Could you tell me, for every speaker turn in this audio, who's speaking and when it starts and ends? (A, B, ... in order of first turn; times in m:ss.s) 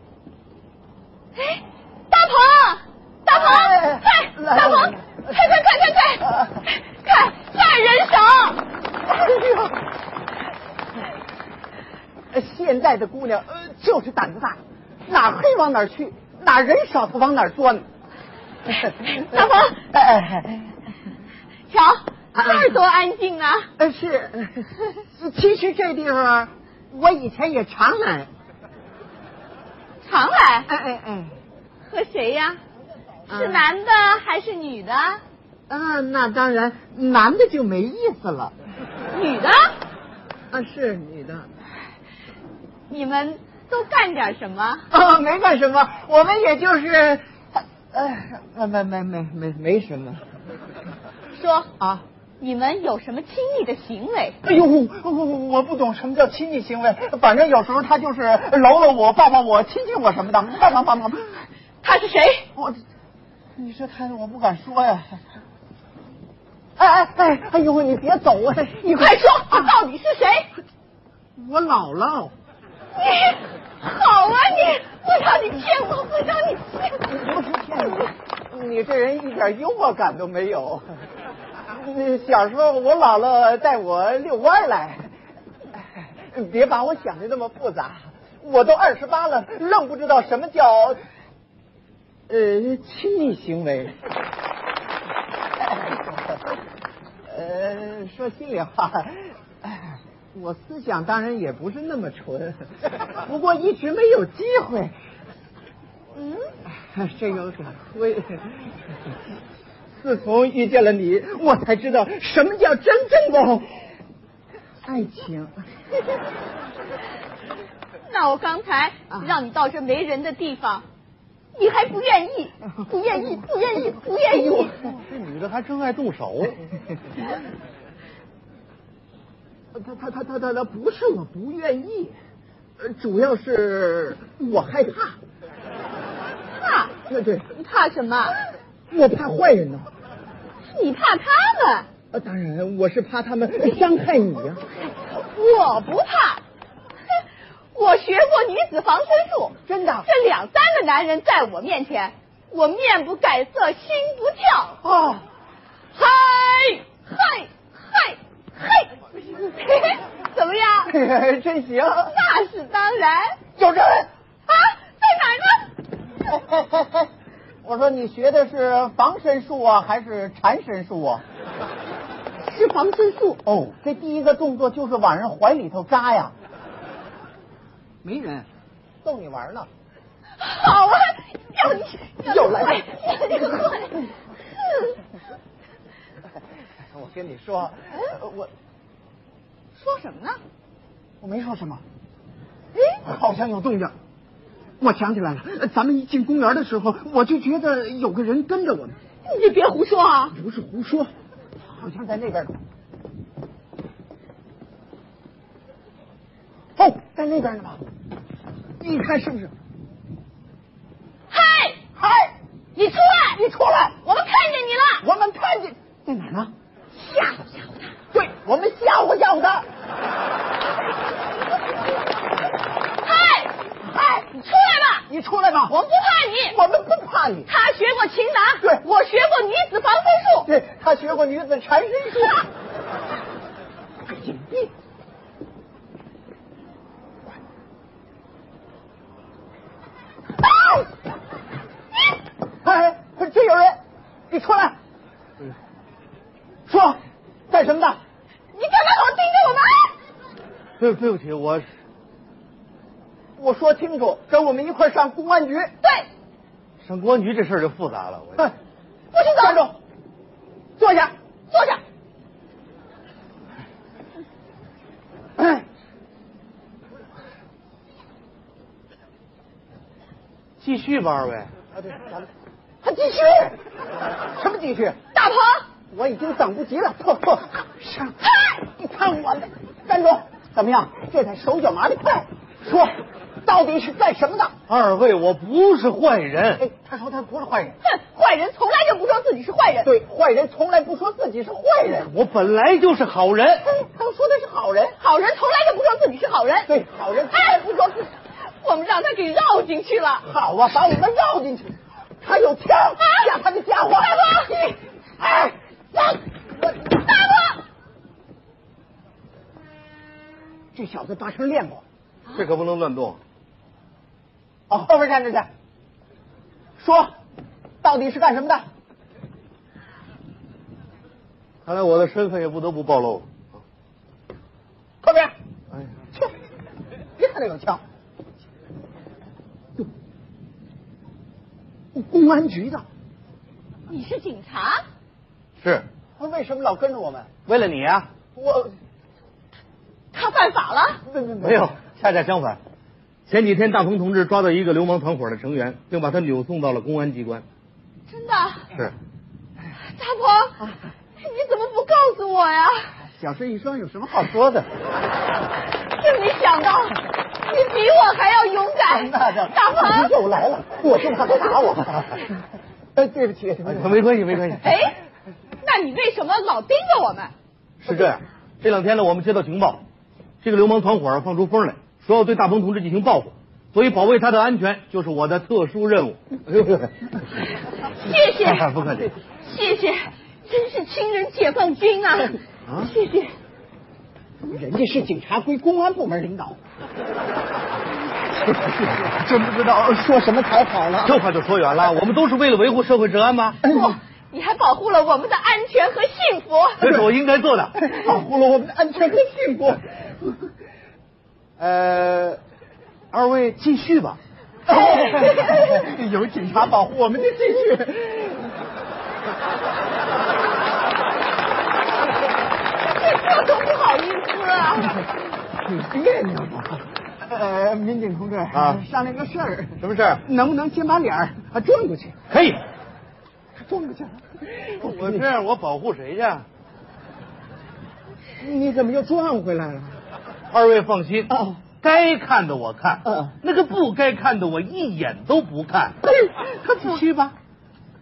0:01.4-0:08.6 A
0:03.3-0:05.4 B
0:06.2-0:06.6 B
0:09.0-0:09.8 B
0:12.3-0:17.9 B
0:18.7-0:20.8 B
0:19.1-0:19.8 A
0:21.7-0:23.7 A
0:22.4-0:22.8 B
0:23.8-0:28.3 B
0:30.0-0:30.7 A
0:30.7-0:31.4 B
0:31.9-0:32.6 A
0:33.3-0:33.7 B
0:33.3-0:35.2 A
0:35.7-0:38.5 B
0:39.1-0:39.8 A
0:40.5-0:41.5 B
0:42.9-0:44.9 A
0:44.9-0:50.2 B
0:51.3-0:51.7 A
0:51.8-0:52.0 B
0:52.4-0:54.4 A
0:54.4-1:01.5 B
1:01.8-1:02.5 A
1:03.6-1:05.2 B
1:06.8-1:09.8 B
1:08.8-1:10.5 A
1:11.4-1:12.3 B
1:13.0-1:17.1 A
1:17.0-1:21.0 B
1:21.7-1:25.1 B
1:25.7-1:31.0 B
1:32.3-1:34.0 B
1:37.3-1:44.9 B
1:46.2-1:46.5 A
1:46.8-1:48.7 B
1:50.0-1:53.7 B
1:54.8-1:55.6 B
1:58.0-2:00.8 A
2:01.5-2:04.8 A
2:03.1-2:05.0 B
2:04.8-2:06.7 C
2:09.7-2:12.2 B
2:12.8-2:15.2 B
2:16.6-2:17.0 A
2:17.1-2:17.5 B
2:17.5-2:18.4 A
2:18.9-2:19.9 B
2:20.6-2:21.9 A
2:22.1-2:24.6 B
2:25.2-2:26.4 A
2:27.7-2:34.8 A
2:29.7-2:30.1 B
2:34.8-2:35.2 B
2:35.9-2:40.9 A
2:40.9-2:42.2 B
2:42.1-2:43.4 A
2:43.6-2:44.1 B
2:44.5-2:45.7 A
2:46.2-2:47.1 B
2:47.6-2:51.2 B
2:52.4-2:53.4 A
2:53.4-2:56.3 B
2:58.0-2:58.5 B
2:59.0-2:59.7 B
3:00.4-3:04.0 A
3:02.2-3:03.7 B
3:04.6-3:05.0 A
3:06.9-3:08.5 B
3:09.8-3:10.4 A
3:11.2-3:11.8 B
3:13.0-3:13.9 B
3:14.8-3:19.0 B
3:19.2-3:20.4 A
3:20.3-3:21.1 B
3:21.6-3:22.6 B
3:26.8-3:27.9 B
3:28.8-3:29.5 B
3:31.3-3:31.8 A
3:32.0-3:32.4 B
3:32.8-3:33.4 A
3:33.3-3:34.0 B
3:34.0-3:35.0 A
3:35.0-3:36.5 B
3:36.9-3:37.9 A
3:38.1-3:39.7 B
3:43.0-3:43.6 A
3:43.8-3:44.4 B
3:44.3-3:45.1 A
3:45.1-3:45.8 B
3:45.7-3:46.6 A
3:46.5-3:47.5 B
3:47.5-3:50.5 A
3:50.5-3:52.5 B
3:54.1-3:54.7 B
4:00.5-4:00.9 B
4:02.6-4:03.8 B
4:04.3-4:04.8 B
4:06.7-4:08.0 B
4:08.5-4:10.0 A
4:10.8-4:11.7 C
4:13.4-4:15.7 B
4:15.8-4:16.1 A
4:16.8-4:18.5 C
4:19.1-4:19.6 A
4:19.2-4:19.8 B
4:20.8-4:21.1 B
4:25.4-4:25.6 B
4:30.6-4:31.5 C
4:31.7-4:32.3 B
4:32.8-4:33.6 B
4:34.3-4:35.0 B
4:35.1-4:35.7 A
4:35.9-4:44.6 B
4:44.7-4:46.6 C
4:46.6-4:47.8 B
4:47.8-4:49.9 A
4:49.8-4:52.1 B
4:52.0-4:53.7 C
4:53.6-4:55.0 B
4:55.0-4:56.7 A
4:56.7-4:58.0 B
4:57.3-5:00.3 A
5:00.2-5:06.2 B
5:03.0-5:03.3 A
5:04.1-5:04.5 A
5:06.8-5:07.6 A
5:10.7-5:11.8 B
5:12.3-5:13.2 C
5:14.7-5:15.5 B
5:16.8-5:17.1 B
5:17.8-5:18.6 B
5:21.6-5:23.3 C
5:25.0-5:25.3 B
5:27.2-5:27.8 B
5:31.9-5:32.8 B
5:33.9-5:34.8 A
5:35.6-5:35.9 C
5:36.2-5:37.3 B
5:37.5-5:38.1 C
5:38.4-5:38.8 B
5:40.1-5:41.0 A
5:41.0-5:41.7 B
5:41.4-5:42.6 C
5:43.3-5:47.4 C
5:48.1-5:48.7 A
5:49.8-5:52.9 A
5:53.0-5:54.7 B
5:55.9-6:00.1 A
5:58.9-6:02.3 B
6:03.0-6:04.0 B
6:03.6-6:04.7 C
6:04.6-6:05.0 A
6:05.6-6:07.3 A
6:07.8-6:09.8 C
6:10.4-6:17.1 C
6:17.9-6:18.7 A
6:18.1-6:19.1 C
6:19.4-6:23.4 A
6:24.4-6:26.6 B
6:28.3-6:31.2 B
6:31.0-6:33.6 C
6:33.6-6:34.0 B
6:33.6-6:36.9 A
6:36.8-6:37.9 C
6:37.8-6:40.4 B
6:41.6-6:42.4 C
6:43.1-6:44.2 C
6:44.7-6:48.6 B
6:44.7-6:45.6 A
6:52.9-6:55.0 A
6:55.6-7:02.2 B
6:58.5-6:58.8 C
6:59.8-7:00.2 C
7:02.3-7:02.6 C
7:03.6-7:05.3 B
7:04.8-7:06.5 C
7:08.4-7:10.0 B
7:10.5-7:16.0 C
7:11.3-7:11.6 B
7:13.0-7:13.3 B
7:16.0-7:17.3 B
7:16.8-7:17.3 C